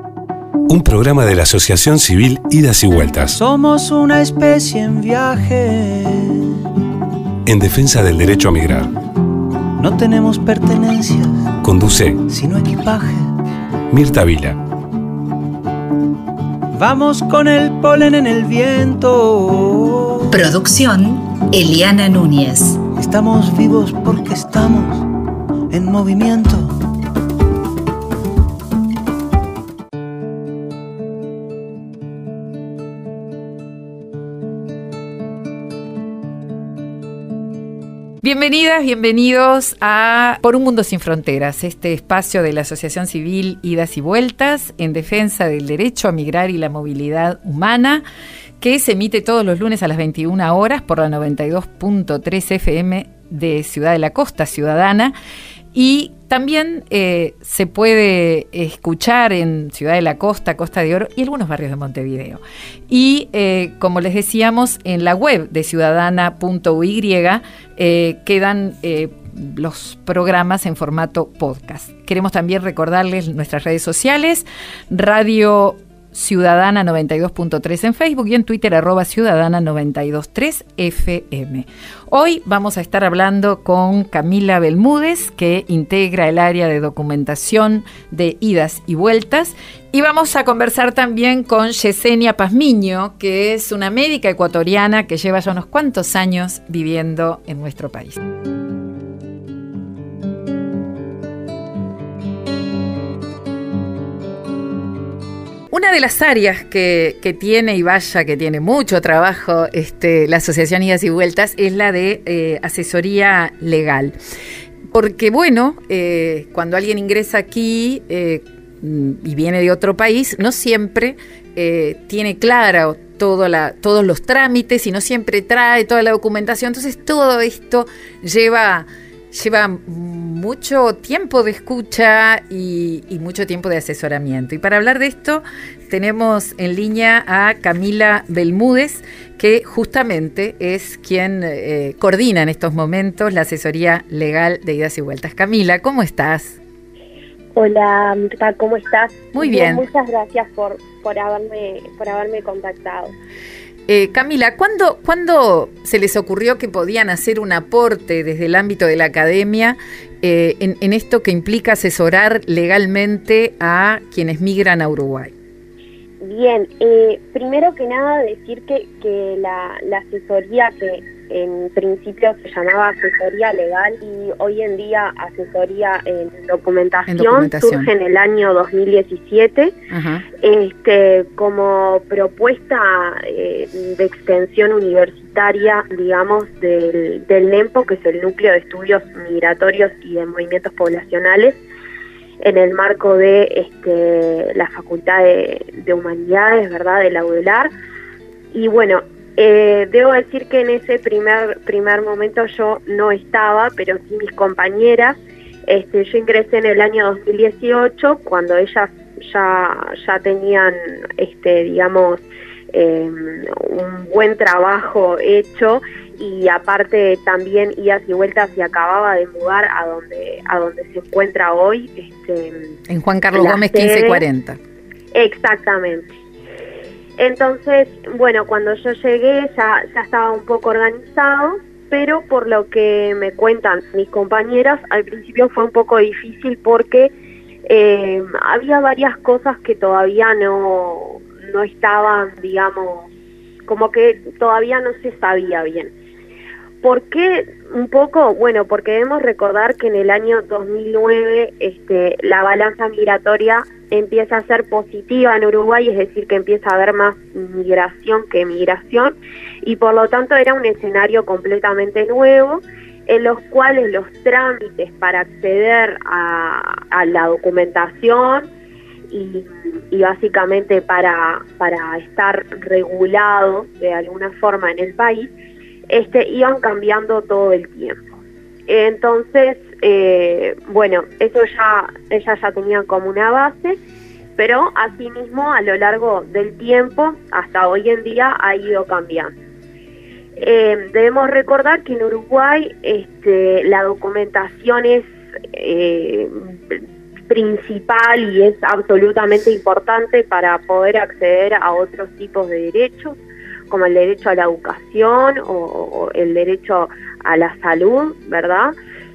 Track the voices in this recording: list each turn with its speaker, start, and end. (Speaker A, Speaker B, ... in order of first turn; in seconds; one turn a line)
Speaker A: 0.7-3.4
Speaker B: 3.3-6.5
Speaker A: 7.5-8.9
Speaker B: 9.8-11.5
Speaker A: 11.6-12.2
Speaker B: 12.3-13.3
Speaker A: 13.9-14.6
Speaker B: 16.8-20.3
Speaker C: 20.3-22.8
Speaker B: 22.9-25.1
Speaker B: 25.7-26.8
Speaker D: 38.2-48.0
Speaker D: 48.6-55.1
Speaker D: 55.7-98.2
Speaker D: 105.7-114.2
Speaker D: 114.9-146.6
Speaker E: 147.6-153.2
Speaker D: 149.3-149.8
Speaker D: 153.9-165.3
Speaker E: 166.2-179.7
Speaker D: 177.1-177.9
Speaker D: 179.9-180.2
Speaker E: 180.4-191.6
Speaker E: 192.4-197.7
Speaker E: 198.5-212.2
Speaker E: 212.7-222.7
Speaker D: 222.9-224.6
Speaker E: 223.3-224.2
Speaker E: 225.1-226.1
Speaker E: 227.2-237.1
Speaker E: 237.7-243.1
Speaker E: 243.7-245.9
Speaker E: 246.8-268.5
Speaker E: 269.1-275.3
Speaker E: 275.9-278.1
Speaker E: 278.7-283.8
Speaker E: 284.4-289.3
Speaker E: 290.4-303.2
Speaker E: 303.7-308.7